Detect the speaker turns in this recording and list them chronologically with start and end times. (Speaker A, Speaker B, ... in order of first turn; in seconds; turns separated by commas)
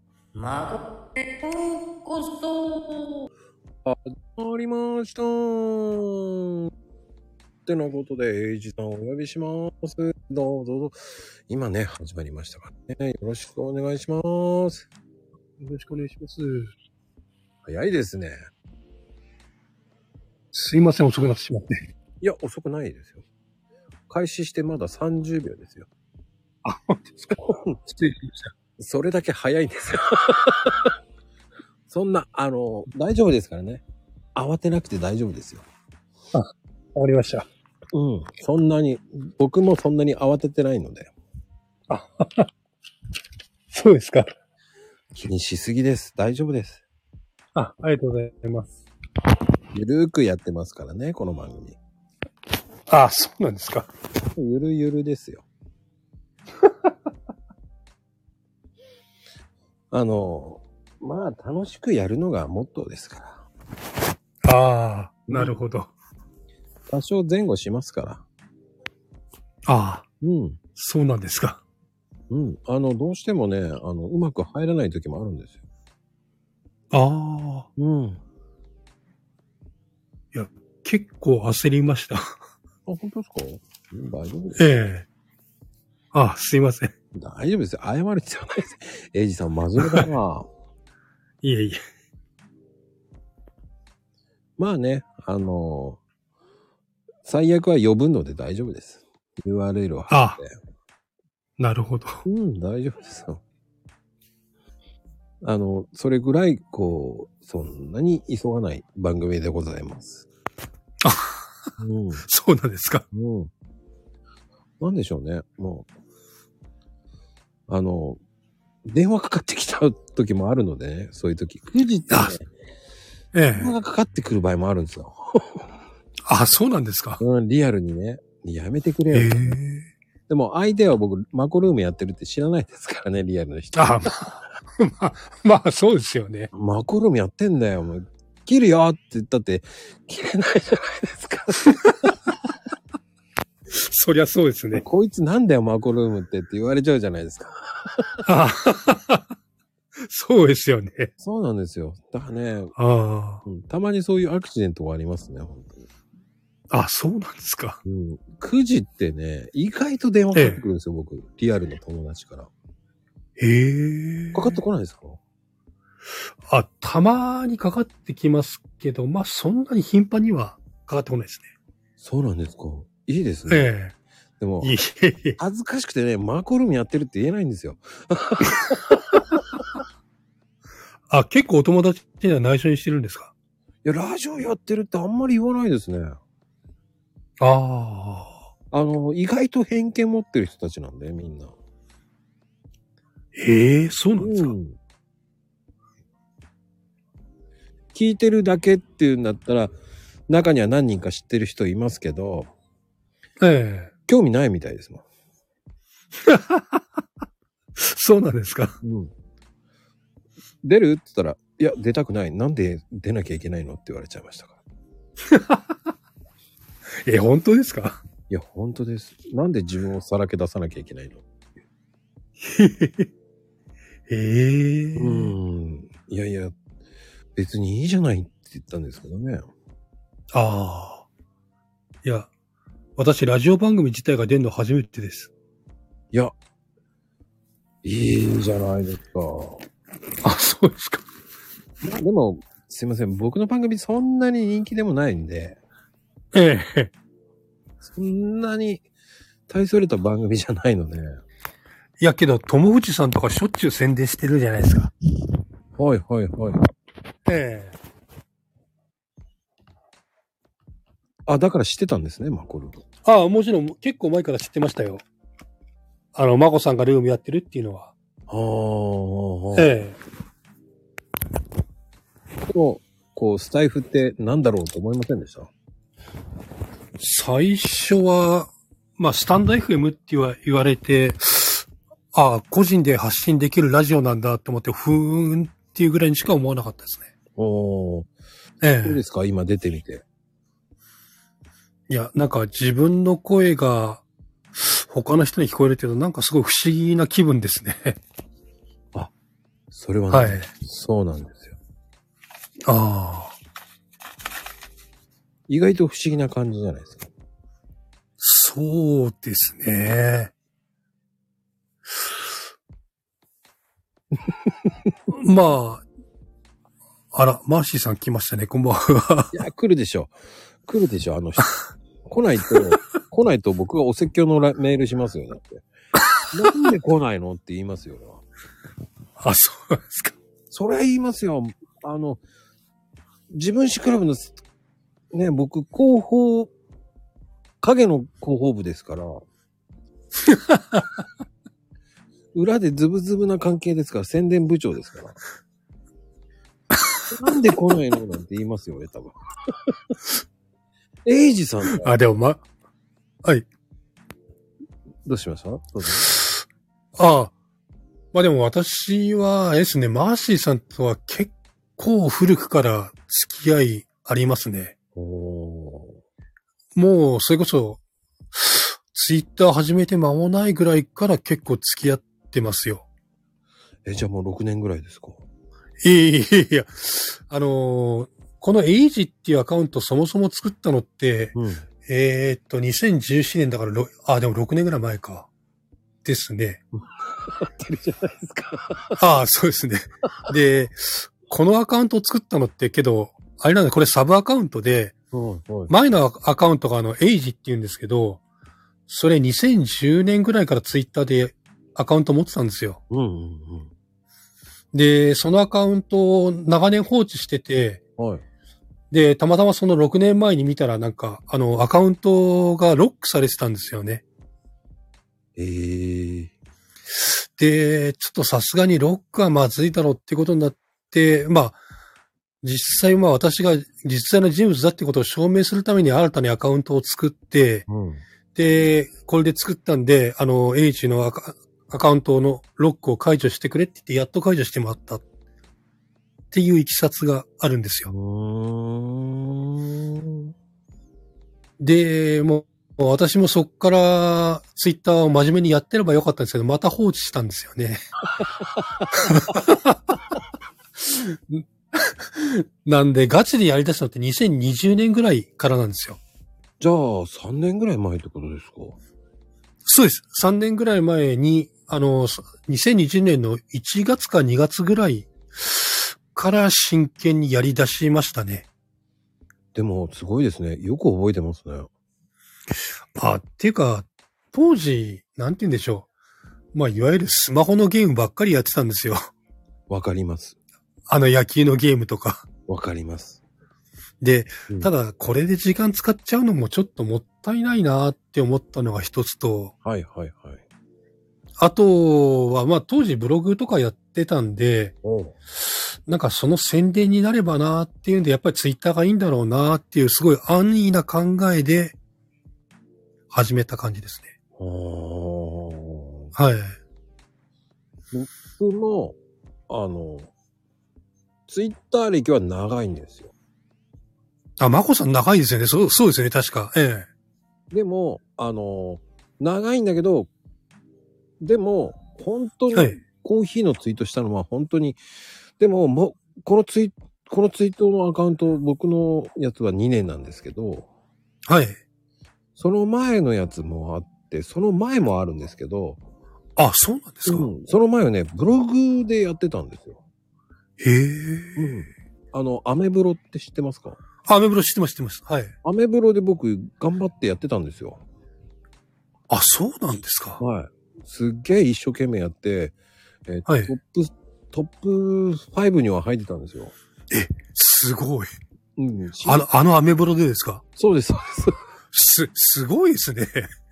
Speaker A: 0.3-3.3, Speaker B: 3.9-6.7, Speaker B: 7.7-11.0, Speaker B: 11.5-14.9, Speaker C: 15.6-16.7, Speaker B: 17.6-18.4, Speaker C: 20.5-21.8, Speaker B: 22.2-23.2, Speaker B: 24.1-25.9, Speaker C: 26.6-28.5, Speaker B: 27.4-27.8, Speaker B: 28.8-30.9, Speaker B: 31.9-33.8, Speaker B: 34.4-35.6, Speaker C: 36.3-37.5, Speaker B: 37.9-41.1, Speaker C: 41.9-42.5, Speaker C: 43.7-44.3, Speaker B: 45.1-46.9, Speaker C: 47.5-48.7, Speaker B: 49.7-51.8, Speaker C: 52.9-53.9, Speaker B: 54.4-55.5, Speaker C: 56.6-56.9, Speaker B: 59.9-63.5, Speaker C: 64.4-65.9, Speaker B: 65.3-65.6, Speaker B: 66.9-68.2, Speaker C: 69.7-70.0, Speaker B: 70.2-70.6, Speaker C: 70.8-71.6, Speaker B: 72.3-75.6, Speaker C: 76.9-77.7, Speaker B: 77.8-78.2, Speaker C: 80.3-82.3, Speaker B: 82.9-84.6, Speaker C: 84.6-85.1, Speaker C: 86.1-86.9, Speaker B: 87.1-90.5, Speaker C: 89.8-90.1, Speaker C: 91.4-91.8, Speaker B: 94.6-96.0, Speaker B: 97.2-100.6, Speaker C: 100.1-100.4, Speaker C: 101.6-102.2, Speaker B: 102.2-103.4, Speaker B: 105.4-110.3, Speaker C: 111.0-111.5, Speaker B: 111.8-112.2, Speaker C: 112.3-113.1, Speaker B: 113.1-113.5, Speaker B: 114.8-115.9, Speaker B: 117.7-118.2, Speaker B: 118.9-122.5, Speaker C: 122.1-122.4, Speaker C: 123.3-123.7, Speaker B: 123.5-125.6, Speaker C: 126.3-127.2, Speaker B: 127.2-129.6, Speaker C: 129.1-129.9, Speaker B: 130.3-134.3, Speaker C: 133.8-136.5, Speaker B: 136.5-142.2, Speaker C: 143.7-144.8, Speaker B: 144.7-148.2, Speaker C: 148.3-149.3, Speaker C: 150.0-151.1, Speaker B: 151.2-152.8, Speaker C: 152.8-153.4, Speaker B: 153.4-155.9, Speaker C: 156.7-157.8, Speaker B: 157.8-162.5, Speaker C: 160.3-160.6, Speaker C: 163.4-164.6, Speaker B: 164.3-165.2, Speaker C: 166.5-171.5, Speaker B: 172.0-173.7, Speaker C: 173.5-173.9, Speaker B: 174.4-174.8, Speaker C: 174.6-175.4, Speaker B: 175.4-178.8, Speaker C: 181.1-183.3, Speaker B: 183.8-186.2, Speaker C: 187.4-188.4, Speaker B: 188.7-191.6, Speaker C: 193.3-194.5, Speaker B: 194.2-194.8, Speaker B: 197.9-199.7, Speaker B: 200.3-202.5, Speaker C: 203.4-203.9, Speaker B: 204.1-205.0, Speaker C: 206.2-206.8, Speaker C: 207.8-208.8, Speaker B: 208.8-209.1, Speaker B: 210.6-214.6, Speaker C: 215.3-215.8, Speaker C: 217.1-218.0, Speaker B: 218.3-221.2, Speaker C: 222.4-223.1, Speaker C: 224.1-225.3, Speaker B: 225.0-226.6, Speaker B: 227.4-229.4, Speaker C: 230.3-231.1, Speaker C: 232.0-232.3, Speaker C: 233.0-235.3, Speaker B: 237.8-239.6, Speaker C: 240.2-241.0, Speaker B: 241.8-245.6, Speaker C: 246.3-246.9, Speaker B: 247.8-248.8, Speaker B: 249.5-251.2, Speaker C: 252.0-254.9, Speaker B: 255.8-256.6, Speaker C: 257.3-257.7, Speaker B: 261.3-262.8, Speaker C: 263.1-265.0, Speaker C: 266.1-267.9, Speaker B: 268.3-269.8, Speaker C: 269.6-270.0, Speaker B: 272.5-275.5, Speaker C: 277.0-287.1, Speaker B: 287.4-288.1, Speaker C: 288.6-289.0, Speaker B: 288.8-290.0, Speaker C: 291.9-294.0, Speaker C: 294.6-298.0, Speaker B: 299.7-301.6, Speaker C: 300.1-300.5, Speaker C: 302.6-303.3, Speaker B: 305.5-307.1, Speaker C: 308.2-310.3, Speaker C: 315.1-315.8, Speaker C: 317.1-319.4, Speaker B: 319.3-320.1, Speaker B: 320.7-321.5, Speaker B: 322.1-325.6, Speaker B: 326.3-328.2, Speaker C: 329.2-330.1, Speaker B: 330.5-332.2, Speaker B: 333.3-334.4, Speaker B: 335.1-336.5, Speaker B: 337.6-339.2, Speaker C: 340.3-340.8, Speaker B: 342.3-345.2, Speaker B: 347.1-349.1, Speaker B: 351.1-351.9, Speaker C: 351.8-352.4, Speaker B: 355.1-356.2, Speaker C: 357.0-357.3, Speaker C: 358.1-364.7, Speaker B: 365.0-366.0, Speaker C: 366.8-367.8, Speaker C: 368.3-372.9, Speaker B: 373.9-375.2, Speaker C: 375.8-381.4, Speaker B: 381.3-381.7, Speaker C: 381.9-385.3, Speaker C: 386.0-386.6, Speaker B: 387.0-389.0, Speaker C: 389.0-394.9, Speaker B: 395.1-395.7, Speaker C: 395.7-398.2, Speaker C: 398.9-402.8, Speaker B: 402.9-403.7, Speaker C: 404.7-407.8, Speaker B: 408.0-408.2, Speaker C: 408.9-414.0, Speaker B: 415.4-416.3, Speaker C: 417.0-421.6, Speaker C: 422.4-427.7, Speaker B: 427.7-428.0, Speaker C: 428.4-435.0, Speaker C: 436.3-437.9, Speaker B: 437.9-440.3, Speaker C: 441.6-447.8, Speaker C: 448.9-449.8, Speaker C: 450.8-456.0, Speaker B: 456.6-458.8, Speaker C: 459.6-468.5, Speaker B: 469.5-471.7, Speaker C: 472.9-475.9, Speaker C: 476.5-479.1, Speaker B: 479.7-480.4, Speaker C: 480.9-482.2, Speaker B: 482.5-483.2, Speaker C: 484.0-489.5, Speaker B: 489.6-490.4, Speaker C: 491.4-494.8, Speaker B: 494.8-495.1, Speaker C: 495.4-501.8, Speaker C: 503.1-504.1, Speaker B: 504.4-506.1, Speaker C: 506.1-506.6, Speaker B: 507.9-509.0, Speaker B: 509.5-510.1, Speaker B: 511.3-513.1, Speaker C: 514.4-516.9, Speaker B: 517.5-520.1, Speaker B: 521.2-524.8, Speaker B: 525.4-530.7, Speaker C: 531.3-531.6, Speaker B: 532.4-535.8, Speaker C: 536.4-537.3, Speaker B: 537.1-539.8, Speaker C: 540.6-541.5, Speaker B: 541.4-543.8, Speaker C: 544.1-545.3, Speaker B: 545.4-547.8, Speaker C: 549.1-550.2, Speaker B: 550.2-552.5, Speaker B: 553.1-556.5, Speaker C: 556.9-558.1, Speaker B: 558.6-559.2, Speaker C: 559.0-560.4, Speaker B: 560.6-561.4, Speaker C: 561.7-563.3